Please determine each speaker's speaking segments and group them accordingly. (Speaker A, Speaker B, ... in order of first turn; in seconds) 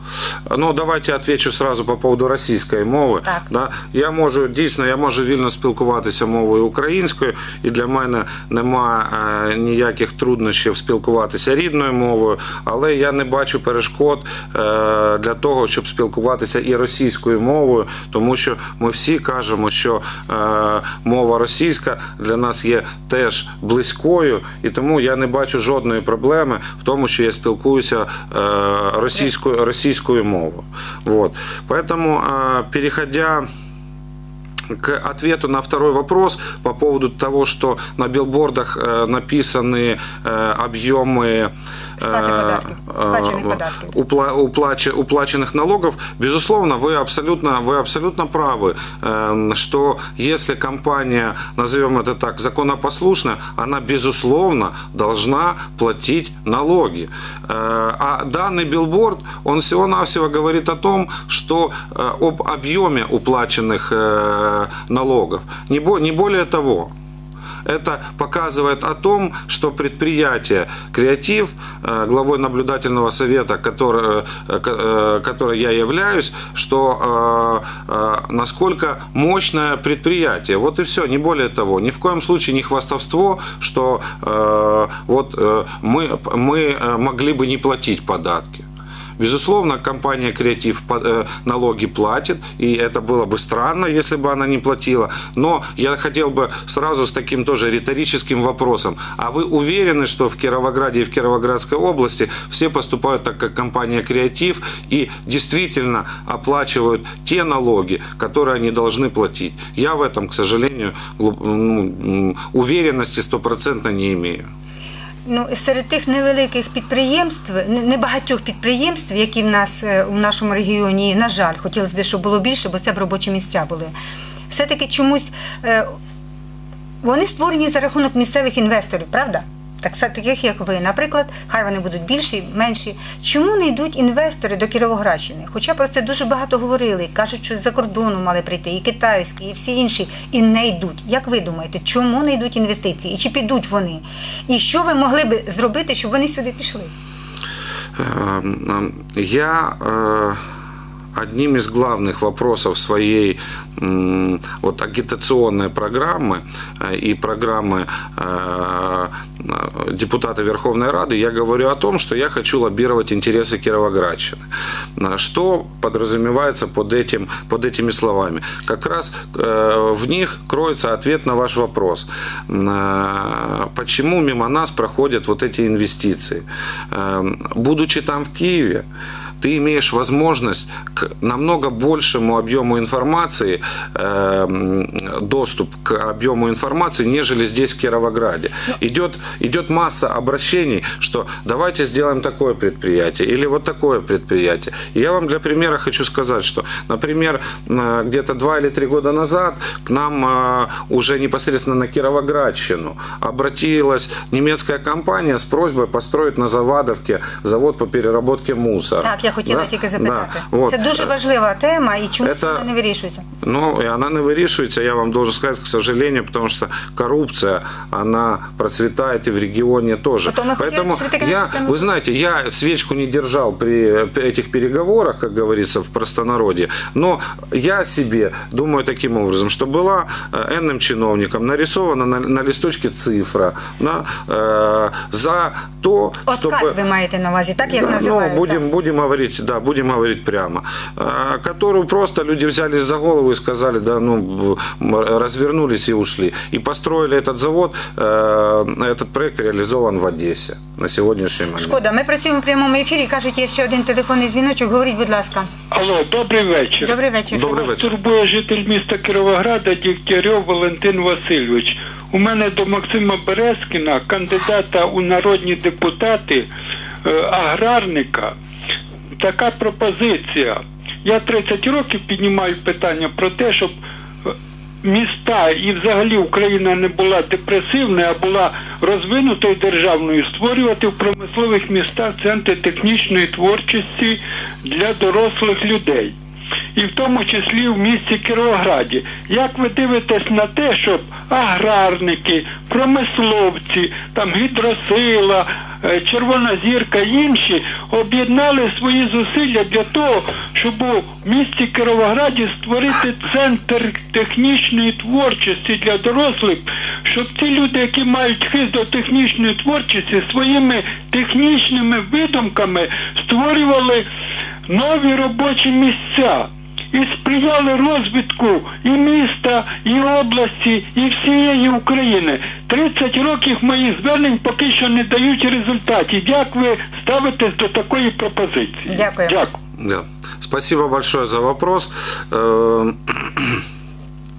Speaker A: 0.5-33.5, 34.7-66.9, 67.6-88.7, 89.2-114.5, 148.0-150.4, 151.1-178.8, 179.4-211.1, 212.2-212.7, 213.4-236.8, 237.6-251.8, 257.3-257.9, 329.8-333.6
Speaker B: 42.0-44.0, 115.2-123.9, 124.5-125.9, 127.0-146.9, 209.0-213.2, 220.2-221.9, 236.3-238.6, 251.6-255.5, 256.8-257.7, 328.9-329.4
Speaker C: 255.7-256.9, 257.6-266.5, 267.0-268.3, 269.1-273.7, 274.2-286.1, 286.8-314.1, 314.7-329.5